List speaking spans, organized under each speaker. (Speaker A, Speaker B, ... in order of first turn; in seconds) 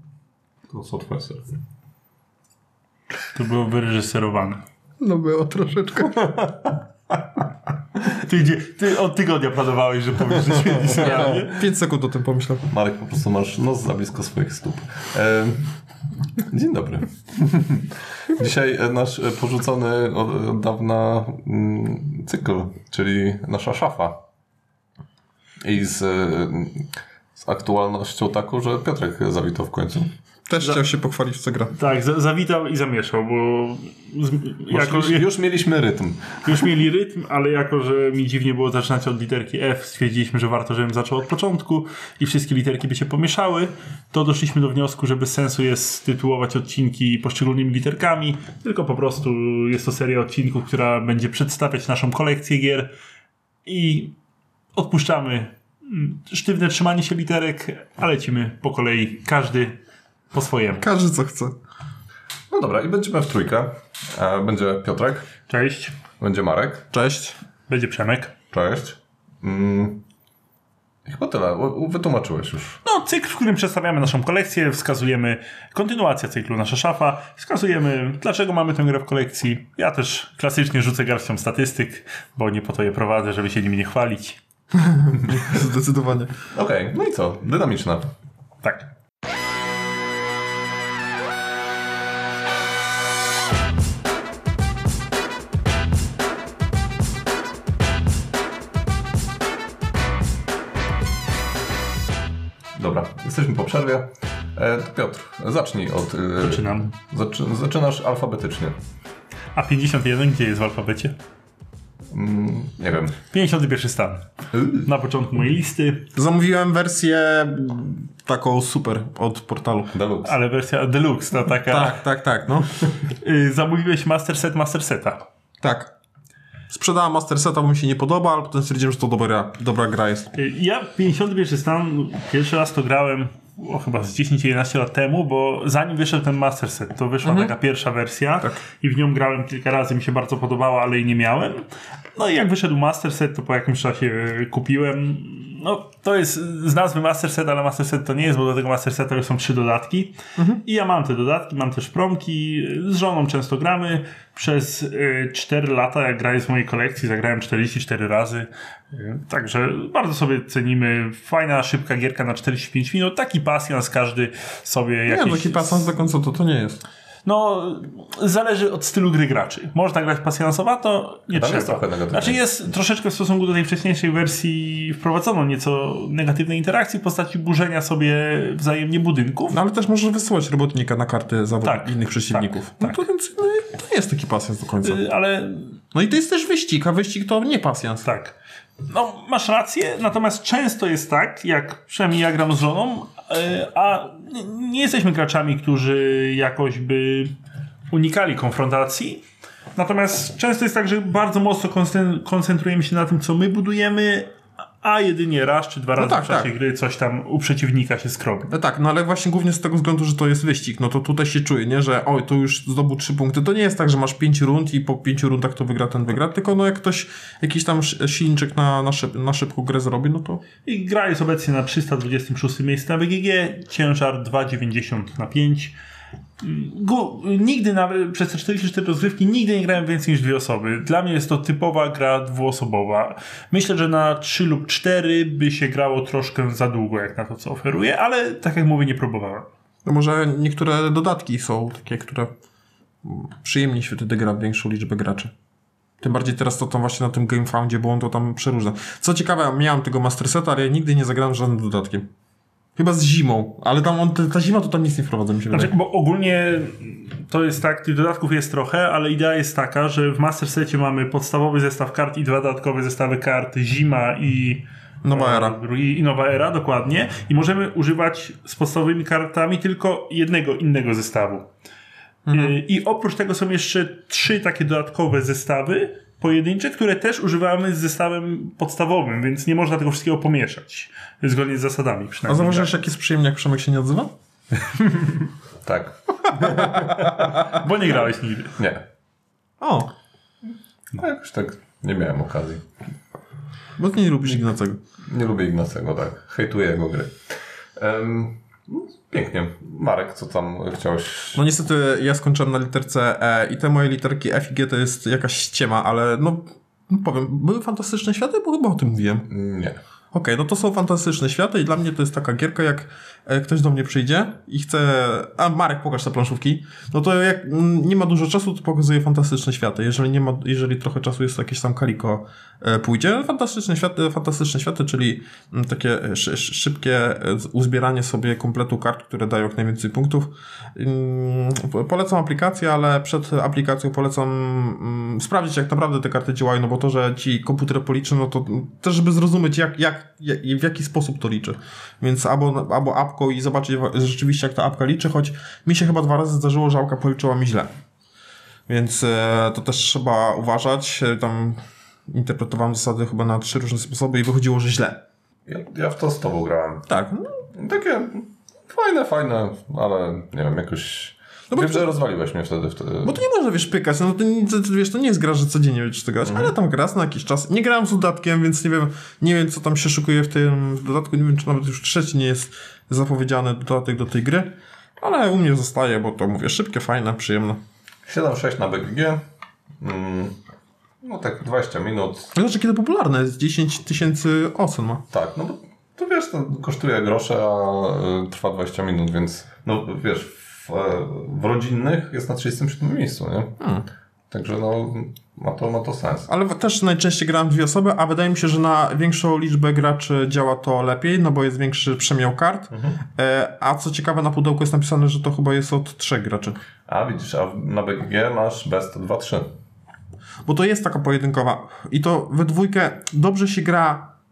Speaker A: 0.7-1.6, 10.8-11.4, 12.7-15.7, 16.4-24.2, 25.6-30.1, 34.7-36.7, 62.5-65.3, 66.2-66.9, 68.5-70.0, 71.1-72.8, 86.5-88.1, 102.8-108.8, 112.1-113.2, 114.5-114.9, 119.9-120.3, 171.3-172.4, 285.6-287.3, 288.6-288.8, 291.0-292.7, 295.1-301.4, 309.3-309.8, 355.5-356.9, 357.5-363.2, 366.2-366.5, 378.1-379.2, 379.8-380.4, 381.0-382.3, 385.1-393.6, 394.3-396.3, 406.9-409.5
Speaker B: 3.3-4.6, 8.1-11.6, 31.8-35.3, 36.4-52.9, 53.7-54.1, 54.8-59.8, 60.3-60.9, 65.5-66.0, 67.7-68.3, 72.8-84.4, 106.4-106.9, 109.5-111.2, 113.3-114.2, 114.8-116.1, 120.2-122.0, 123.2-125.2, 130.3-165.9, 167.2-179.6, 181.6-183.0, 184.8-185.8, 188.1-188.3, 188.9-197.3, 197.9-199.2, 199.8-204.3, 204.8-208.5, 220.7-225.8, 226.4-239.5, 255.5-271.5, 272.3-282.7, 287.5-288.6
Speaker C: 5.0-6.4, 10.9-12.7, 30.5-31.7, 60.8-61.5, 66.9-67.4, 84.7-86.3, 116.1-120.0, 121.7-122.9, 125.6-125.9, 126.7-130.3, 137.2-137.5, 165.1-166.8, 179.5-185.0, 185.9-188.1, 206.0-206.5, 208.5-220.4, 239.9-242.3, 243.0-245.3, 246.0-252.1, 252.8-255.7, 265.0-265.6, 272.3-272.6, 282.3-284.1, 289.6-289.9, 293.8-294.8, 301.3-309.3, 310.1-347.7, 348.7-355.0, 356.9-357.4, 361.5-361.9, 363.0-377.6, 382.4-385.0, 393.6-393.9, 396.3-406.6, 410.4-414.1